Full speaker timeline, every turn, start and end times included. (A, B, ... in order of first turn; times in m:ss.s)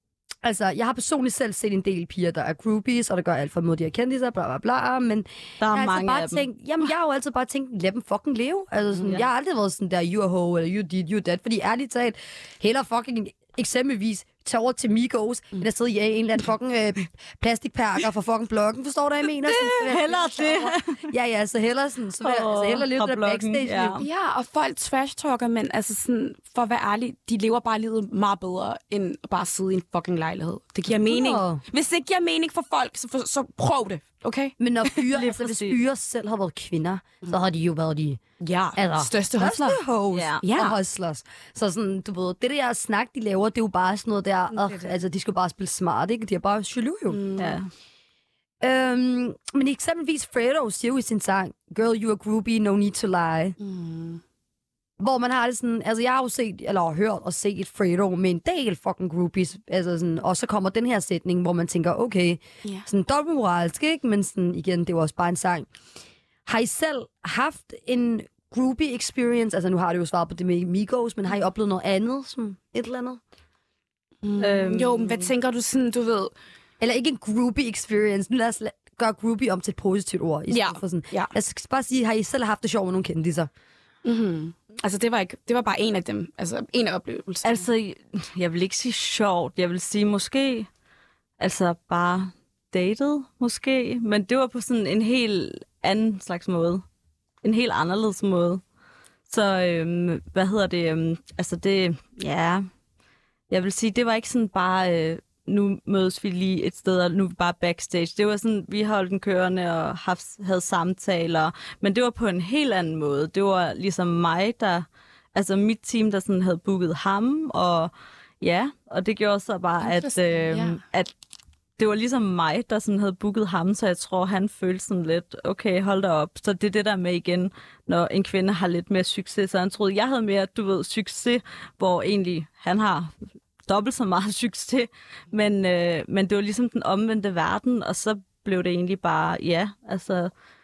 0:00.4-0:24.0 A
0:05.6-0:06.4 B
0:19.4-0:21.0 B
0:22.2-0:24.0 B
0:24.0-0:34.5 C
0:31.0-0:31.6 A
0:34.6-0:38.2 A
0:35.1-0:35.8 B
0:38.4-0:39.8 C
0:38.8-0:47.2 A
0:40.1-0:40.5 B
0:40.4-0:40.8 C
0:44.5-0:44.9 C
0:47.1-0:47.6 C
0:47.4-0:47.7 B
0:48.6-0:53.6 A
0:53.6-0:54.2 C
0:55.0-1:05.7 A
1:06.4-1:13.2 A
1:14.2-1:16.3 C
1:14.4-1:15.3 B
1:16.8-1:23.5 A
1:20.5-1:21.3 C
1:24.0-1:27.6 C
1:27.4-1:30.7 B
1:31.4-1:36.8 B
1:37.4-1:38.6 B
1:39.3-1:42.6 B
1:43.5-2:01.1 B
1:59.8-2:00.8 C
2:01.8-2:13.1 B
2:13.7-2:20.3 B